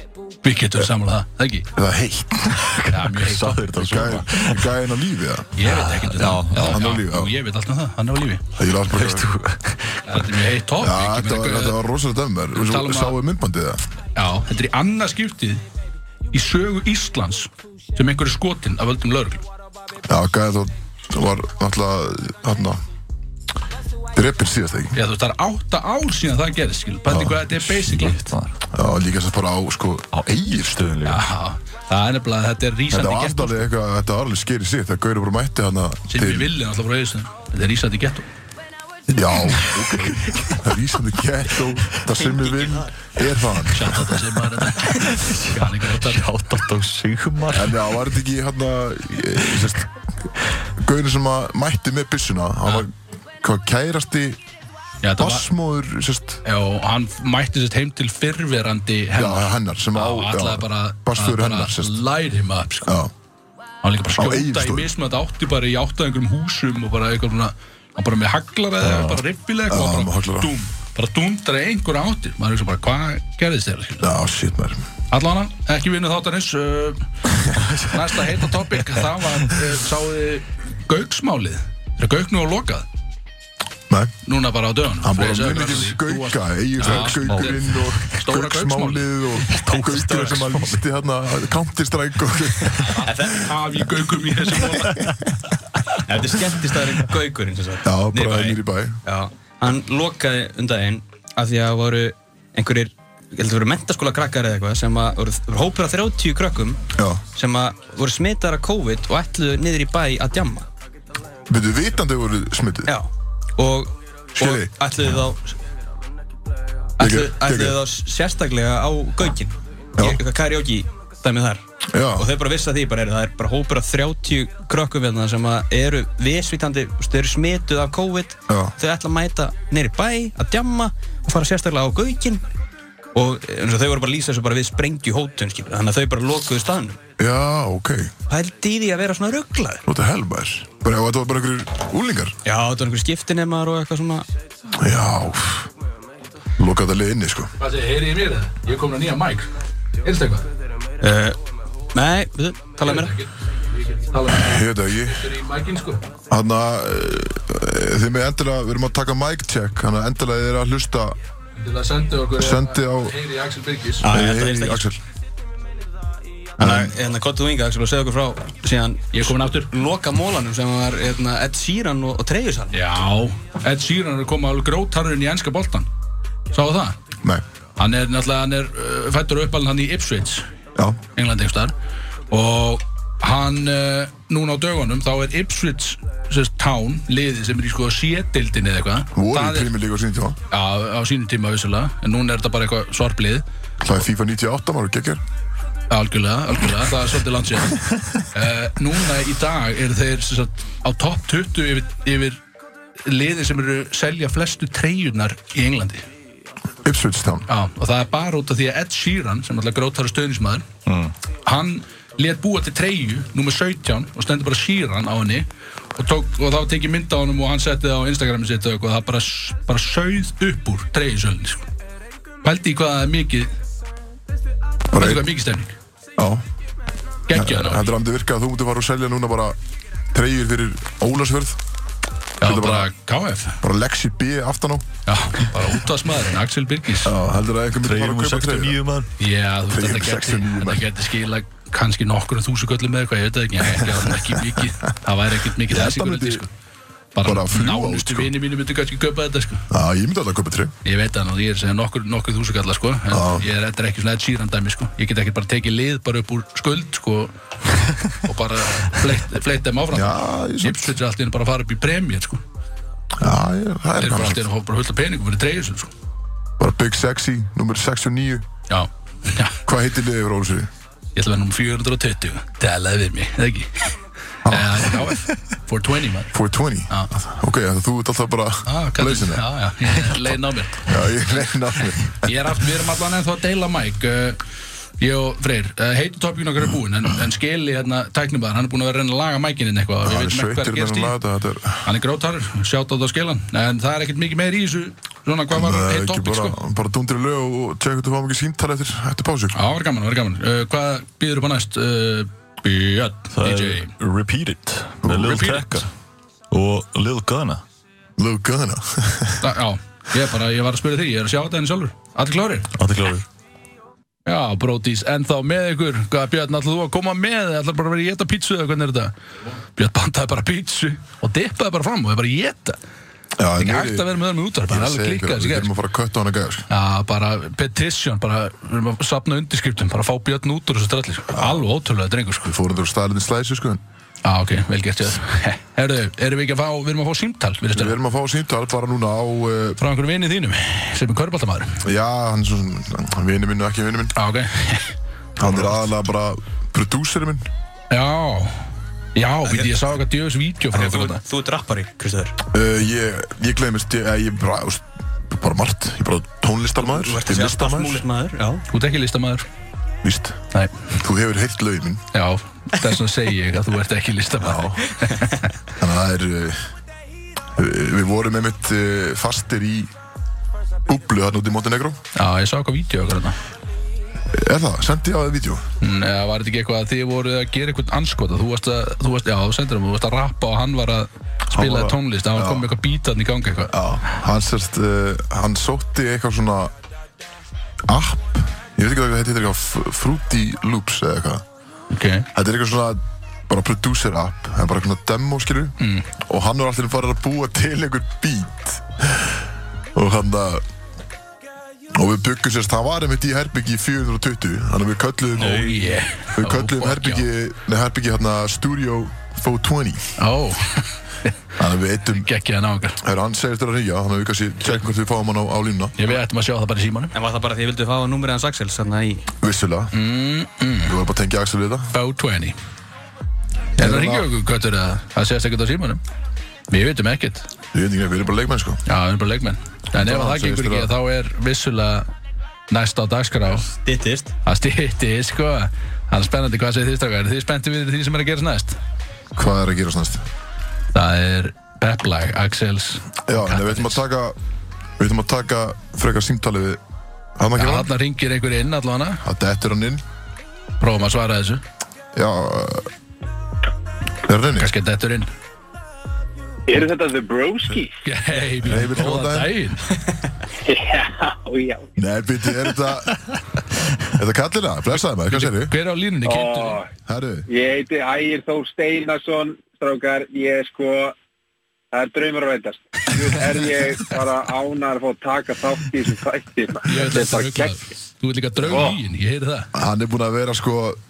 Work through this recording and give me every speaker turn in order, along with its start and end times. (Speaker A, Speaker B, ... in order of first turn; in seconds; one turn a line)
Speaker A: 0.4-1.7
Speaker B: 1.8-2.8
Speaker C: 2.6-4.7
Speaker A: 2.9-3.7
Speaker B: 3.7-5.6
Speaker A: 5.6-8.4
Speaker C: 5.6-6.8
Speaker B: 6.6-7.3
Speaker B: 8.6-9.3
Speaker C: 8.9-10.2
Speaker A: 10.1-11.8
Speaker B: 10.8-13.8
Speaker A: 12.6-13.2
Speaker A: 14.2-15.6
Speaker A: 16.3-19.4
Speaker B: 20.1-22.8
Speaker B: 24.1-25.0
Speaker A: 24.9-28.2
Speaker B: 27.1-27.4
Speaker C: 27.1-28.6
Speaker B: 28.7-31.0
Speaker C: 30.1-31.2
Speaker A: 31.1-33.7
Speaker B: 32.9-36.5
Speaker A: 36.1-38.3
Speaker B: 39.1-44.1
Speaker C: 40.2-40.5
Speaker D: 42.2-42.9
Speaker A: 43.7-46.2
Speaker C: 44.7-47.9
Speaker B: 47.5-49.9
Speaker B: 50.8-54.4
Speaker A: 55.0-55.5
Speaker B: 55.2-56.4
Speaker A: 56.5-63.0
Speaker B: 59.1-62.0
Speaker B: 62.9-63.1
Speaker A: 63.8-74.1
Speaker B: 64.2-64.9
Speaker C: 68.8-69.2
Speaker B: 69.7-70.5
Speaker B: 74.0-74.8
Speaker A: 75.1-77.0
Speaker C: 77.5-79.1
Speaker A: 77.9-82.9
Speaker A: 84.3-89.1
Speaker B: 85.0-93.3
Speaker C: 86.8-87.8
Speaker D: 89.7-90.7
Speaker C: 89.8-90.5
Speaker A: 92.8-95.1
Speaker D: 93.0-93.5
Speaker D: 96.0-110.7
Speaker B: 97.8-99.0
Speaker B: 106.9-107.2
Speaker B: 111.5-112.9
Speaker D: 112.9-115.5
Speaker B: 114.3-114.8
Speaker D: 117.0-132.4
Speaker B: 117.0-117.8
Speaker B: 121.9-122.3
Speaker B: 128.5-128.8
Speaker D: 133.2-137.0
Speaker B: 137.2-138.1
Speaker D: 138.3-139.8
Speaker B: 139.8-142.4
Speaker D: 142.4-144.3
Speaker B: 144.8-145.7
Speaker B: 146.6-147.5
Speaker A: 147.6-149.5
Speaker A: 150.0-150.4
Speaker D: 151.0-151.4
Speaker D: 151.9-153.1
Speaker A: 152.8-156.0
Speaker B: 154.3-155.3
Speaker B: 156.3-161.2
Speaker A: 161.6-164.1
Speaker B: 162.4-163.2
Speaker D: 164.0-164.9
Speaker B: 164.1-165.0
Speaker B: 166.6-166.9
Speaker D: 166.6-172.8
Speaker A: 169.1-169.7
Speaker A: 172.7-175.9
Speaker A: 176.5-177.0
Speaker A: 177.8-180.5
Speaker A: 181.2-181.7
Speaker A: 182.3-189.7
Speaker B: 189.2-190.4
Speaker A: 190.5-193.4
Speaker B: 193.8-195.2
Speaker A: 195.9-202.4
Speaker A: 203.1-206.0
Speaker B: 206.8-207.5
Speaker A: 207.5-210.7
Speaker C: 210.9-211.1
Speaker A: 211.4-221.7
Speaker A: 222.4-223.5
Speaker B: 224.9-225.3
Speaker A: 224.9-225.8
Speaker B: 226.2-226.4
Speaker A: 227.3-227.9
Speaker B: 227.3-229.6
Speaker B: 230.1-231.6
Speaker B: 232.4-232.9
Speaker A: 232.4-233.6
Speaker B: 233.6-234.9
Speaker A: 235.1-237.2
Speaker B: 237.0-238.8
Speaker C: 237.8-239.1
Speaker A: 239.2-246.5
Speaker B: 239.7-240.9
Speaker B: 243.8-244.6
Speaker B: 245.7-246.4
Speaker A: 247.2-249.7
Speaker B: 247.2-248.3
Speaker B: 249.7-250.8
Speaker A: 250.8-262.4
Speaker B: 253.1-253.5
Speaker B: 259.9-260.9
Speaker B: 263.2-264.4
Speaker A: 264.0-265.9
Speaker B: 266.6-268.5
Speaker A: 268.7-269.6
Speaker B: 269.7-270.7
Speaker A: 271.1-276.3
Speaker B: 274.4-275.2
Speaker B: 276.3-280.2
Speaker A: 278.7-281.1
Speaker B: 280.9-282.4
Speaker A: 282.2-284.4
Speaker A: 285.0-291.1
Speaker B: 290.0-291.9
Speaker A: 291.8-296.6
Speaker B: 295.5-299.6
Speaker A: 299.5-303.9
Speaker C: 303.3-305.9
Speaker B: 305.0-305.6
Speaker A: 305.3-305.8
Speaker C: 306.5-307.6
Speaker B: 308.2-309.5
Speaker A: 309.4-312.7
Speaker C: 312.8-313.3
Speaker A: 314.3-319.1
Speaker A: 319.8-322.8
Speaker B: 323.4-324.1
Speaker A: 323.6-325.7
Speaker B: 324.7-326.7
Speaker A: 326.7-332.6
Speaker B: 331.3-331.6
Speaker B: 332.4-333.8
Speaker A: 334.2-338.0
Speaker B: 337.7-339.8
Speaker A: 339.8-341.8
Speaker B: 341.8-344.1
Speaker A: 344.2-344.9
Speaker B: 345.4-347.4
Speaker A: 347.9-348.6
Speaker A: 349.2-351.2
Speaker D: 349.4-349.9
Speaker D: 350.7-352.4
Speaker B: 352.5-358.1
Speaker D: 356.8-358.7
Speaker A: 358.7-359.5
Speaker B: 360.0-360.4
Speaker A: 360.5-360.9
Speaker B: 361.0-362.1
Speaker A: 362.1-365.5
Speaker B: 364.4-364.9
Speaker B: 365.8-366.7
Speaker B: 367.6-369.9
Speaker B: 370.9-372.0
Speaker A: 372.1-373.4
Speaker B: 374.3-375.6
Speaker A: 375.8-383.8
Speaker B: 381.5-382.7
Speaker B: 383.7-386.7
Speaker B: 387.9-391.4
Speaker A: 391.9-392.3
Speaker B: 392.3-399.4
Speaker A: 395.8-396.1
Speaker B: 399.9-400.6
Speaker B: 401.9-410.1
Speaker A: 405.4-407.3
Speaker A: 410.2-411.3
Speaker B: 411.6-412.3
Speaker A: 412.2-413.0
Speaker B: 413.0-416.2
Speaker A: 416.0-417.1
Speaker D: 417.1-419.2
Speaker B: 419.4-419.9
Speaker A: 419.9-420.9
Speaker B: 420.9-421.9
Speaker A: 421.9-422.6
Speaker B: 423.8-424.3
Speaker A: 423.8-426.0
Speaker A: 426.7-427.5
Speaker B: 427.7-428.8
Speaker A: 428.9-432.1
Speaker B: 429.9-430.9
Speaker A: 432.7-433.7
Speaker D: 433.7-434.4
Speaker A: 434.4-438.8
Speaker B: 439.4-440.2
Speaker A: 440.9-444.0
Speaker B: 443.3-444.4
Speaker B: 445.0-446.8
Speaker B: 447.4-447.9
Speaker A: 447.6-449.2
Speaker B: 449.2-450.0
Speaker A: 450.8-451.6
Speaker B: 452.1-452.9
Speaker B: 454.2-454.7
Speaker A: 454.6-455.3
Speaker E: 456.7-458.0
Speaker A: 458.0-459.8
Speaker B: 458.6-459.5
Speaker E: 460.6-461.9
Speaker B: 462.0-463.2
Speaker B: 464.1-465.8
Speaker A: 465.3-466.8
Speaker E: 466.2-466.9
Speaker B: 467.1-467.5
Speaker E: 467.5-471.1
Speaker E: 471.9-477.8
Speaker A: 476.9-479.7
Speaker B: 478.6-478.9
Speaker E: 478.7-479.0
Speaker B: 479.7-481.0